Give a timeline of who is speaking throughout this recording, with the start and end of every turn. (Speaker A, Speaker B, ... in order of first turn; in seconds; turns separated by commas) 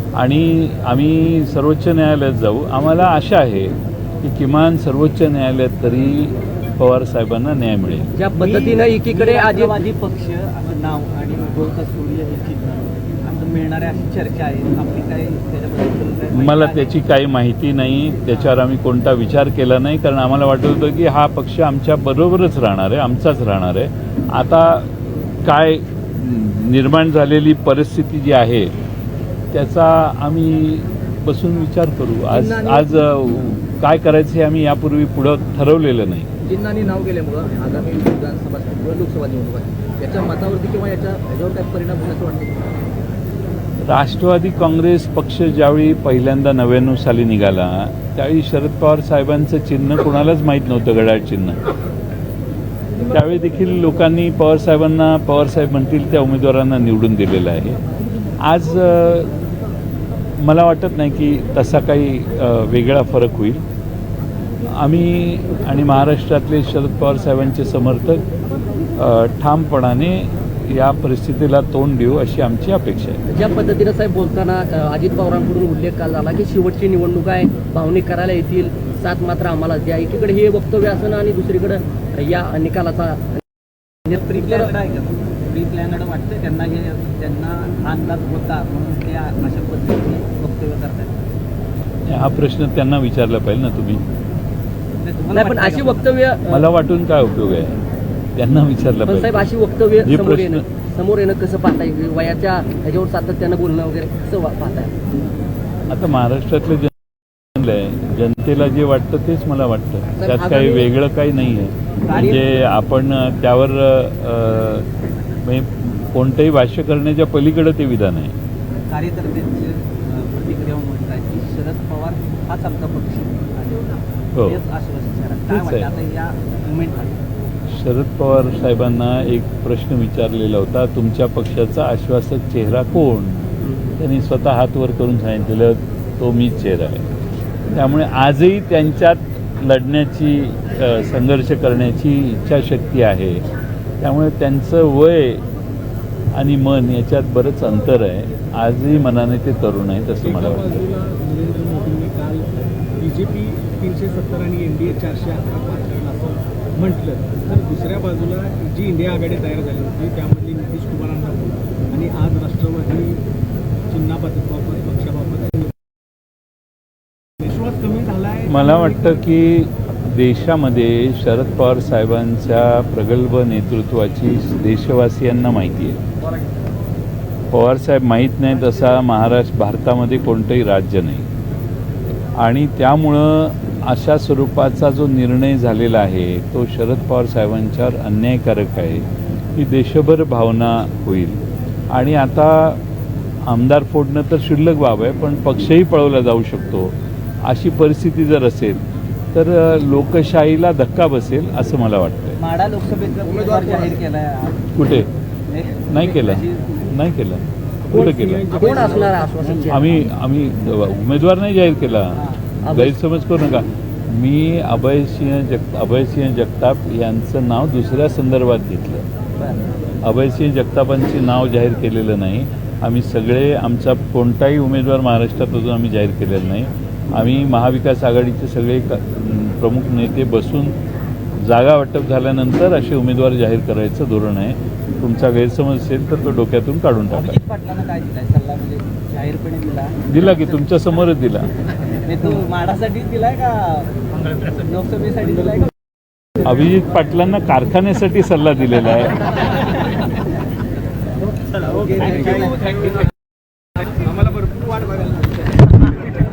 Speaker A: 0.1-8.1, Speaker B: 8.1-9.8, Speaker C: 8.4-16.9, Speaker A: 16.3-28.7, Speaker A: 29.5-36.3, Speaker C: 32.3-32.8, Speaker C: 36.5-39.6, Speaker D: 36.5-38.1, Speaker D: 38.7-39.4, Speaker D: 40.0-42.6, Speaker C: 40.2-42.3, Speaker A: 43.8-51.6, Speaker A: 53.1-57.8, Speaker A: 58.4-59.3, Speaker A: 60.4-63.6, Speaker A: 64.7-68.2, Speaker A: 69.0-73.2, Speaker B: 73.3-83.4, Speaker B: 84.1-84.7, Speaker C: 84.1-91.2, Speaker A: 92.1-94.0, Speaker C: 95.0-96.1, Speaker B: 95.3-96.7, Speaker A: 96.5-97.8, Speaker A: 98.3-99.5, Speaker B: 99.0-104.9, Speaker A: 100.0-100.6, Speaker A: 105.9-106.9, Speaker A: 107.5-114.9, Speaker B: 110.2-110.9, Speaker C: 112.1-112.4, Speaker A: 115.4-118.3, Speaker C: 118.9-127.1, Speaker A: 124.3-124.6, Speaker A: 125.5-125.9, Speaker A: 127.7-133.4, Speaker B: 133.6-134.0, Speaker A: 134.0-137.1, Speaker A: 137.7-143.4, Speaker A: 144.0-145.4, Speaker A: 146.3-150.8, Speaker E: 150.2-152.5, Speaker E: 153.0-163.2, Speaker E: 163.9-165.7, Speaker E: 167.4-169.2, Speaker A: 168.5-176.0, Speaker A: 177.5-181.3, Speaker A: 182.4-192.8, Speaker A: 193.4-198.8, Speaker A: 199.3-202.4, Speaker C: 202.4-204.7, Speaker D: 203.2-204.0, Speaker A: 204.7-205.1, Speaker C: 205.5-206.8, Speaker A: 205.9-208.5, Speaker E: 207.9-209.2, Speaker C: 208.5-209.3, Speaker B: 208.5-210.1, Speaker A: 209.7-219.1, Speaker C: 212.1-212.4, Speaker B: 212.6-213.0, Speaker A: 220.0-230.7, Speaker A: 231.4-237.4, Speaker C: 237.1-240.2, Speaker A: 240.1-241.5, Speaker C: 242.0-245.7, Speaker A: 246.4-249.3, Speaker C: 251.5-252.9, Speaker E: 252.0-252.7, Speaker E: 254.0-255.1